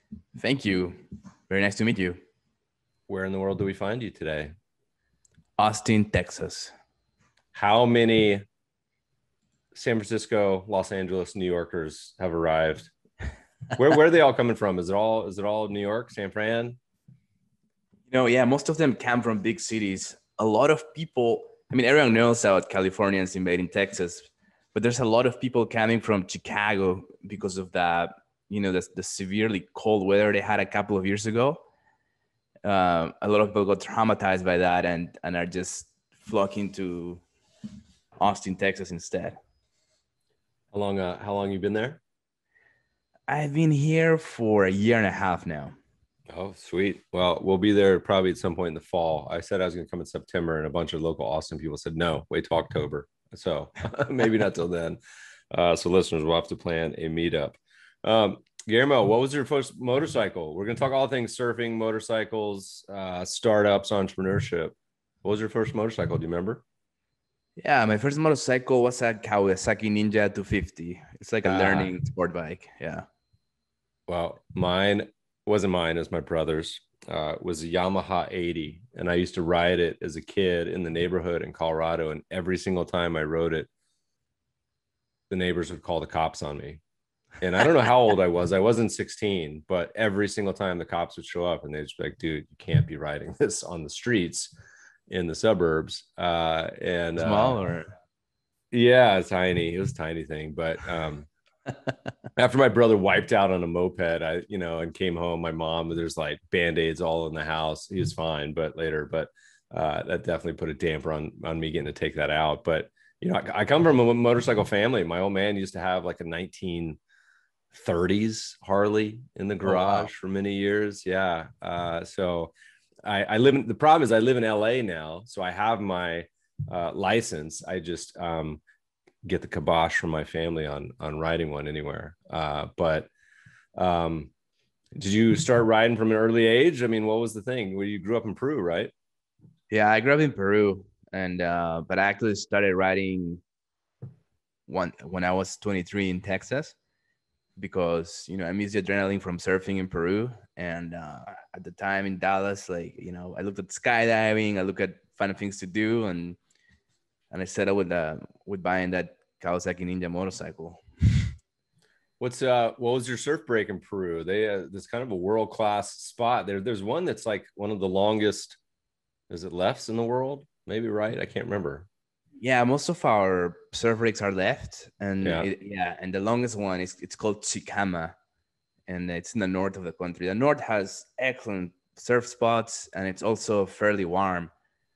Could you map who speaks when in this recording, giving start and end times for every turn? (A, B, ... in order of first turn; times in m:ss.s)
0:00.4-0:02.2 A
0:03.1-0:04.5 B
0:05.6-0:06.7 A
0:07.5-0:08.4 B
0:09.7-0:12.9 B
0:13.8-0:16.8 B
0:18.1-0:31.6 A
0:32.6-0:37.2 A
0:38.2-0:39.4 A
0:40.7-0:42.0 B
0:43.3-0:45.8 A
0:46.3-0:55.0 B
0:55.5-1:06.6 B
1:07.6-1:13.0 A
1:11.4-1:11.9 B
1:14.1-1:23.7 B
1:25.3-1:26.8 B
1:27.4-1:34.5 B
1:35.1-1:37.6 B
1:37.2-1:37.9 A
1:38.7-1:41.3 B
1:42.4-1:57.0 B
1:57.7-2:02.5 B
1:59.6-2:00.1 A
2:03.0-2:08.6 B
2:09.2-2:13.1 B
2:13.8-2:14.3 B
2:14.9-2:18.9 B
2:19.7-2:23.4 A
2:24.7-2:26.7 A
2:27.6-2:36.4 A
2:37.3-2:41.3 A
2:42.2-2:48.6 B
2:49.3-2:51.9 B
2:52.4-2:58.2 A
2:55.2-2:55.5 B
2:58.9-3:04.5 A